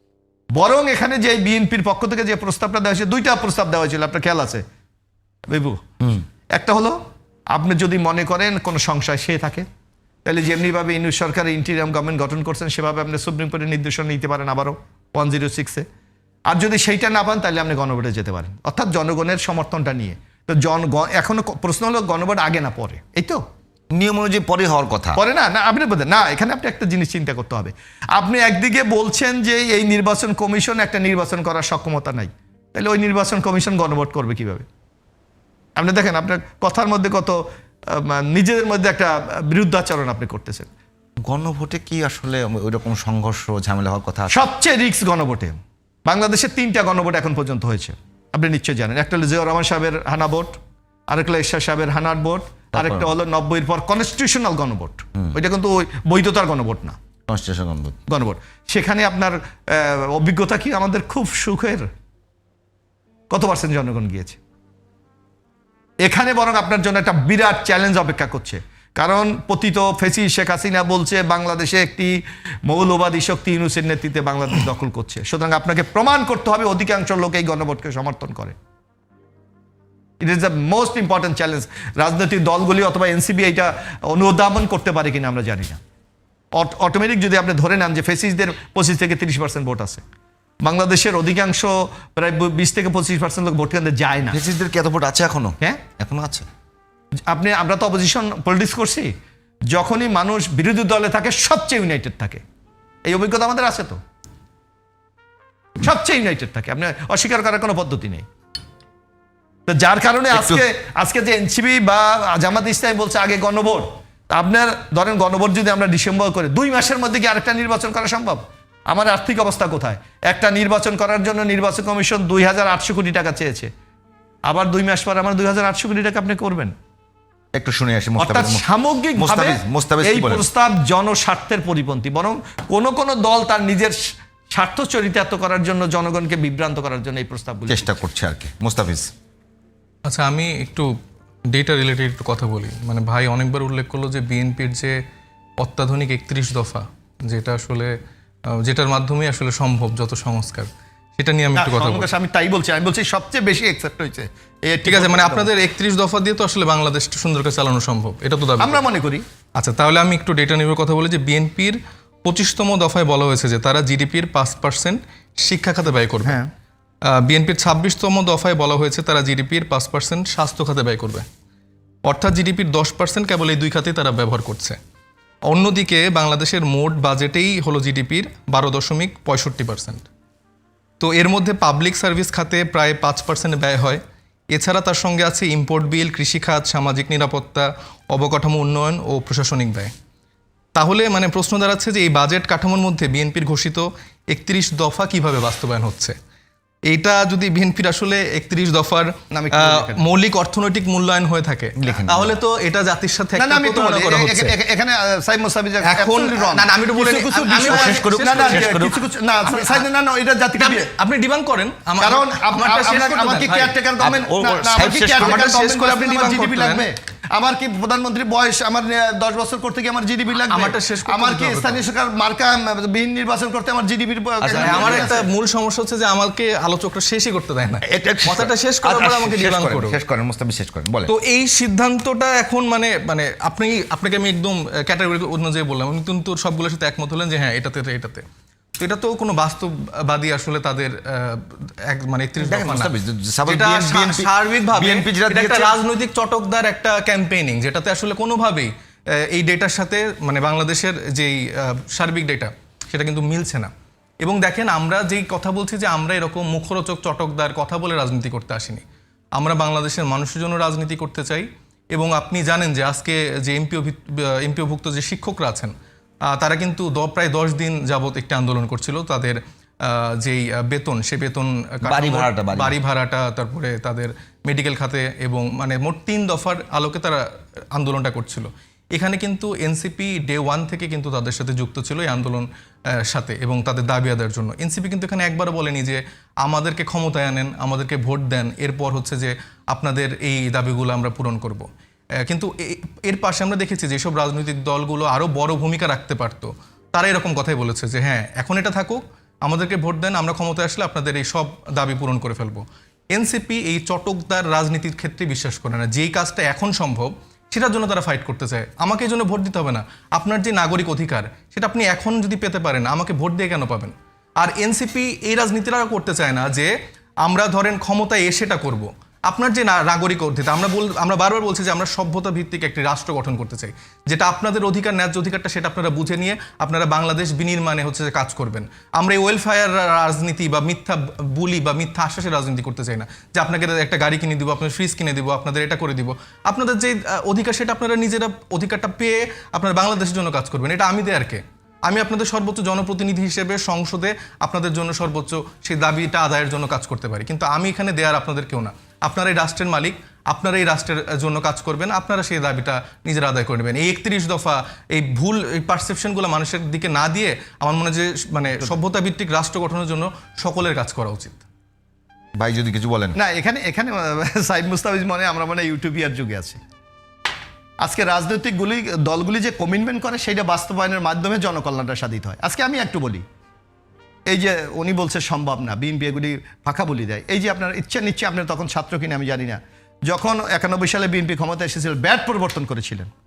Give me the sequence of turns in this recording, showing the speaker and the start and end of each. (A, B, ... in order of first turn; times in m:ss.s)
0:00.5-0:04.6 A
0:05.5-0:05.8 A
0:06.6-0:07.0 A
0:07.5-0:09.6 A
0:10.2-0:15.8 A
0:16.5-0:23.4 A
0:23.9-0:25.2 B
0:25.1-0:34.6 A
0:35.8-0:37.4 A
0:37.9-0:40.7 A
0:41.2-0:44.3 B
0:44.3-0:50.5 A
0:51.1-0:57.0 A
0:52.7-0:53.1 B
0:57.3-0:58.0 B
0:58.1-1:01.8 A
1:03.3-1:04.4 A
1:06.0-1:12.1 A
1:12.6-1:18.5 A
1:20.2-1:25.8 A
1:26.5-1:30.0 A
1:30.6-1:34.4 A
1:34.3-1:36.4 B
1:37.3-1:39.1 A
1:39.7-1:42.4 A
1:43.0-1:44.0 A
1:45.8-1:48.2 A
1:49.7-2:03.7 A
1:50.3-1:50.6 B
2:04.4-2:06.7 A
2:07.5-2:08.6 B
2:08.2-2:14.0 A
2:09.2-2:10.4 B
2:14.5-2:17.8 A
2:17.7-2:19.1 B
2:20.0-2:20.9 C
2:21.5-2:25.0 C
2:25.6-2:27.9 C
2:28.5-2:32.1 C
2:31.6-2:35.5 A
2:34.8-2:38.8 C
2:38.6-2:39.2 A
2:39.5-2:46.4 C
2:47.1-2:51.2 C
2:52.0-2:54.8 C
2:55.4-3:00.0 C
3:01.0-3:04.0 C
3:04.5-3:09.9 C
3:10.7-3:16.2 C
3:16.9-3:24.5 C
3:19.3-3:20.0 A
3:21.8-3:22.4 B
3:23.4-3:30.9 A
3:25.8-3:28.8 C
3:27.6-3:28.9 B
3:29.4-3:29.8 C
3:30.6-3:33.8 C
3:32.0-3:45.2 A
3:34.0-3:35.5 B
3:35.1-3:36.9 C
3:40.4-3:41.8 C
3:44.5-3:50.0 C
3:44.5-3:45.2 B
3:47.8-3:51.1 B
3:51.1-3:58.2 C
3:58.8-4:02.9 C
4:02.4-4:05.7 B
4:03.5-4:08.7 C
4:09.3-4:13.7 C
4:14.2-4:18.8 C
4:19.4-4:25.7 C
4:26.3-4:37.2 C
4:31.8-4:32.8 B
4:37.7-4:42.5 C
4:43.0-4:51.7 C
4:52.2-5:16.7 C
5:17.2-6:01.4 C
6:02.4-6:03.2 B
6:03.1-6:06.6 A
6:07.8-6:13.2 A
6:14.3-6:23.1 A